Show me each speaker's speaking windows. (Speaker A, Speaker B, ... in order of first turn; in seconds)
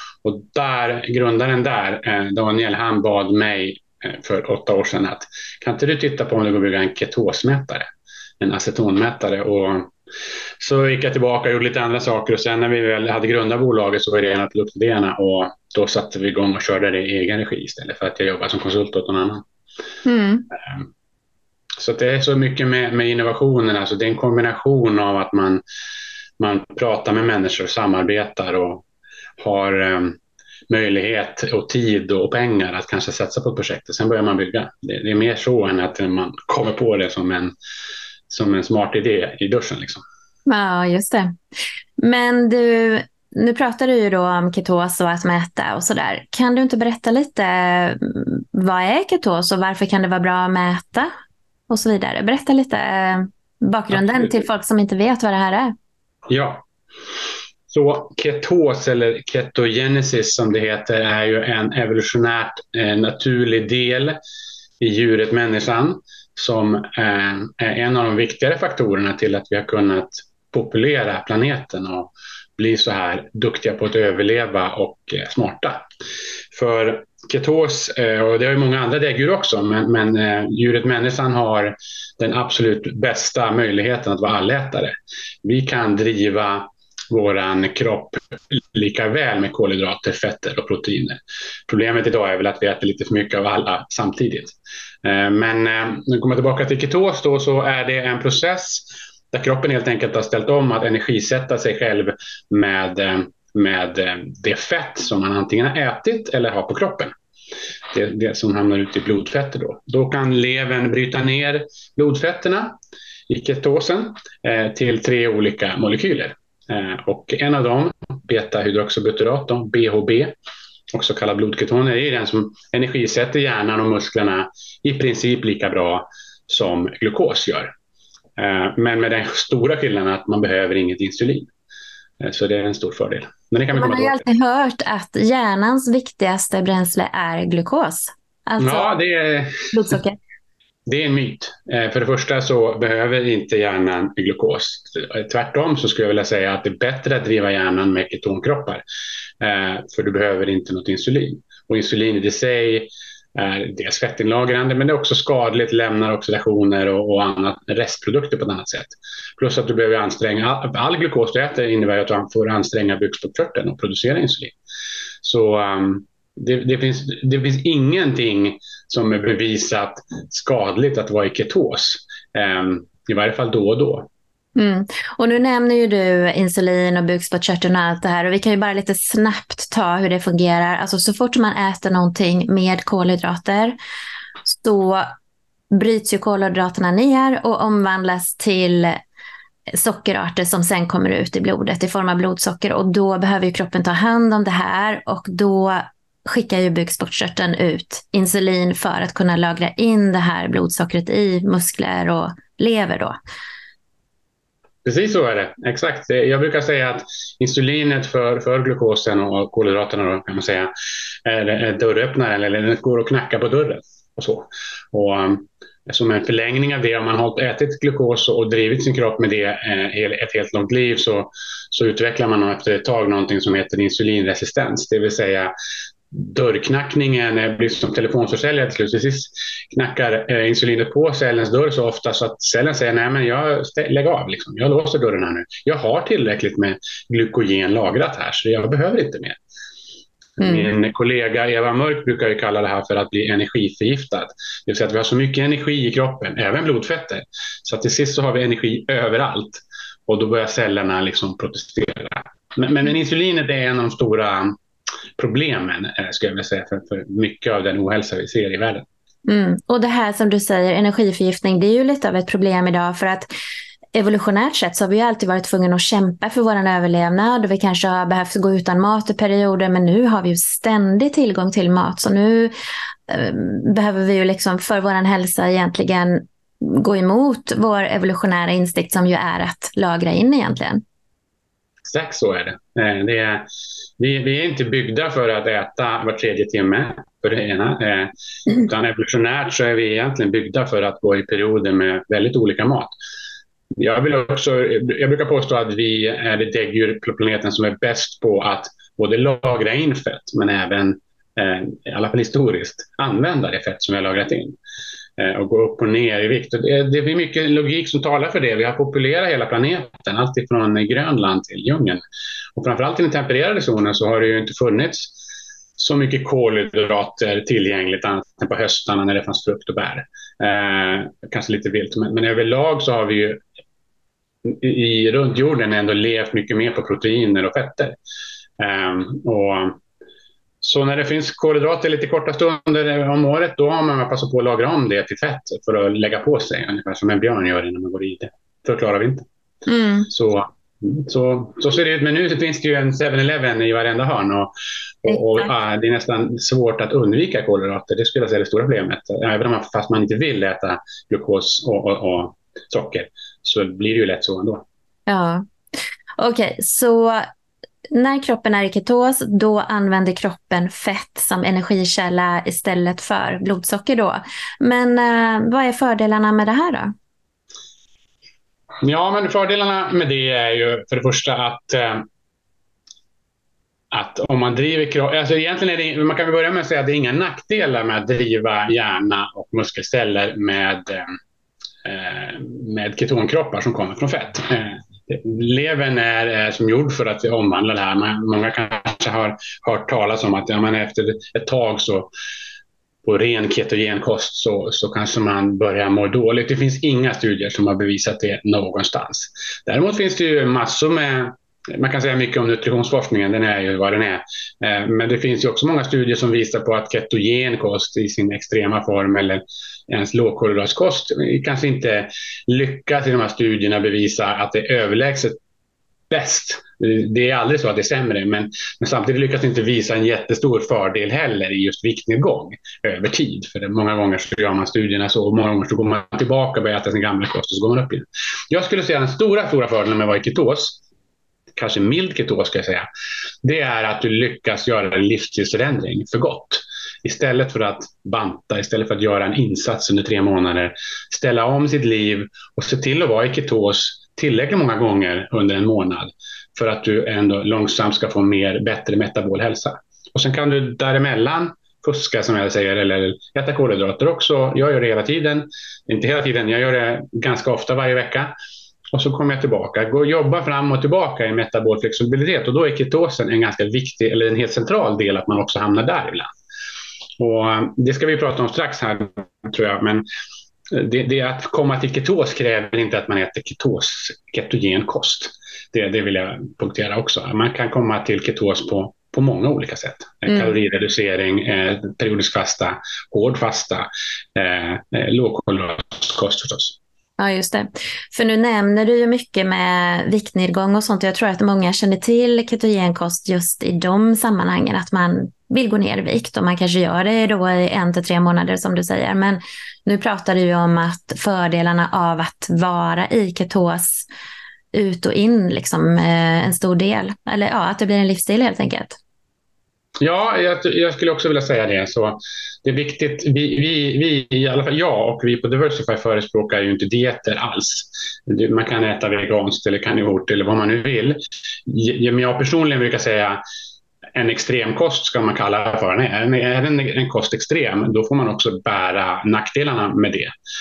Speaker A: 0.2-9.9, 10.6-19.4, 21.8-25.6, 26.4-28.9, 29.4-30.2, 30.7-37.5, 38.3-40.0, 53.9-54.3, 56.3-56.6, 57.7-64.2, 64.8-75.8, 76.5-107.1, 107.9-112.8, 113.3-120.3, 120.9-127.7, 128.4-131.5, 132.2-134.2, 138.6-140.0, 140.9-148.8, 149.4-164.6, 165.2-174.1, 204.8-210.7, 211.2-225.5, 226.1-239.4, 240.4-254.5, 255.2-258.9, 281.9-283.5, 284.0-292.9, 293.8-304.6, 305.2-312.0, 312.6-315.1, 315.8-323.4, 324.4-328.0, 328.6-329.8, 330.6-339.3, 340.1-354.7, 368.8-372.1, 373.9-381.2, 381.8-392.1, 393.0-415.4, 416.1-430.8, 431.6-432.9, 433.4-458.3, 458.9-466.3, 467.2-470.1, 470.7-486.8, 510.0-523.4, 524.1-530.3
Speaker B: 20.1-20.5, 40.5-41.3, 42.0-51.1, 51.7-55.7, 133.7-138.9, 139.7-140.2, 174.6-183.8, 184.5-185.1, 185.7-189.0, 189.7-203.2, 240.4-240.7, 259.3-263.3, 263.9-272.5, 273.1-280.8, 339.7-340.1, 345.1-345.5, 355.1-355.5, 356.2-357.3, 357.9-366.9, 480.3-480.6, 487.2-504.1, 504.7-509.0